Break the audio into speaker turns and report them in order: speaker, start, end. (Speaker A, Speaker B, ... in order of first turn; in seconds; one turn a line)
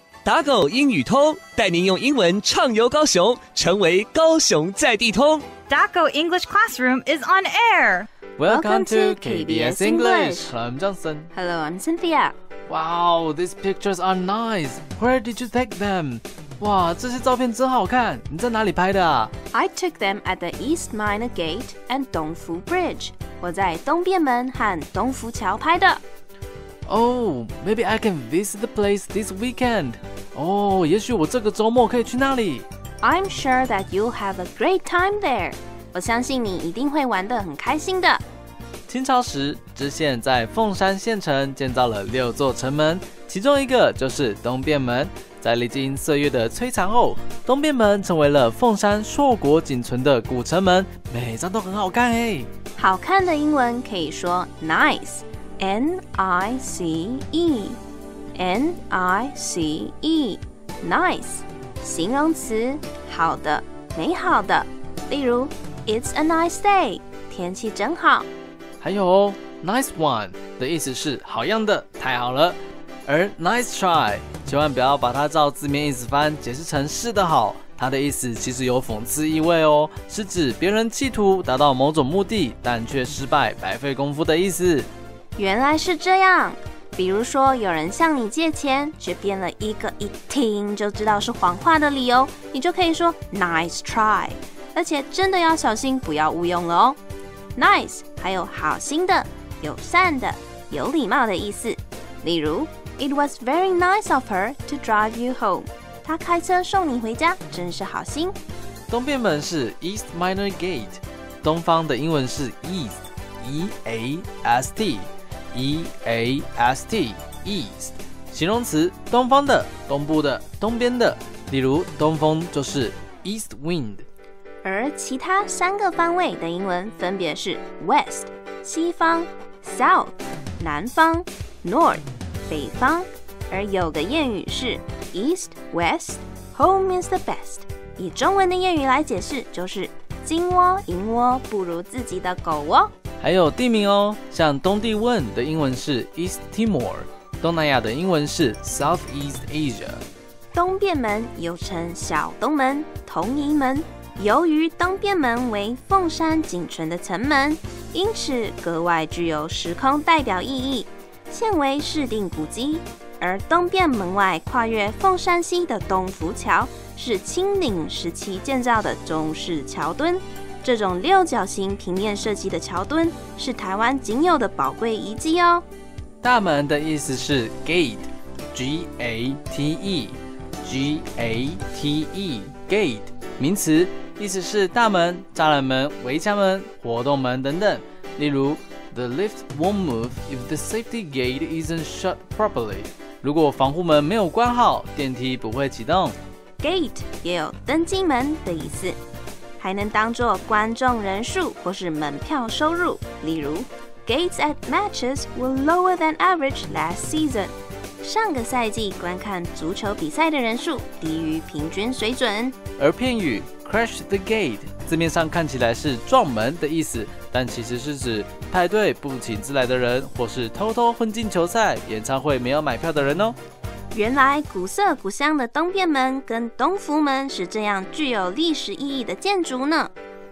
Speaker A: 0.2-5.5
Speaker B: 5.7-8.1
Speaker C: 8.4-11.3
Speaker D: 8.5-10.5
Speaker D: 11.3-12.3
Speaker C: 12.7-19.3
Speaker D: 19.5-26.0
Speaker C: 26.9-32.7
Speaker D: 33.0-38.2
Speaker C: 38.9-52.5
Speaker D: 52.8-57.8
Speaker D: 58.4-68.3
Speaker C: 68.8-84.9
Speaker D: 85.3-97.0
Speaker D: 97.5-108.3
Speaker C: 108.9-124.0
Speaker D: 124.6-142.9
Speaker C: 143.2-150.0
Speaker D: 150.5-175.6
Speaker C: 176.2-196.2
Speaker D: 196.6-199.0
Speaker D: 199.6-212.6
Speaker C: 212.8-223.4
Speaker D: 223.9-229.9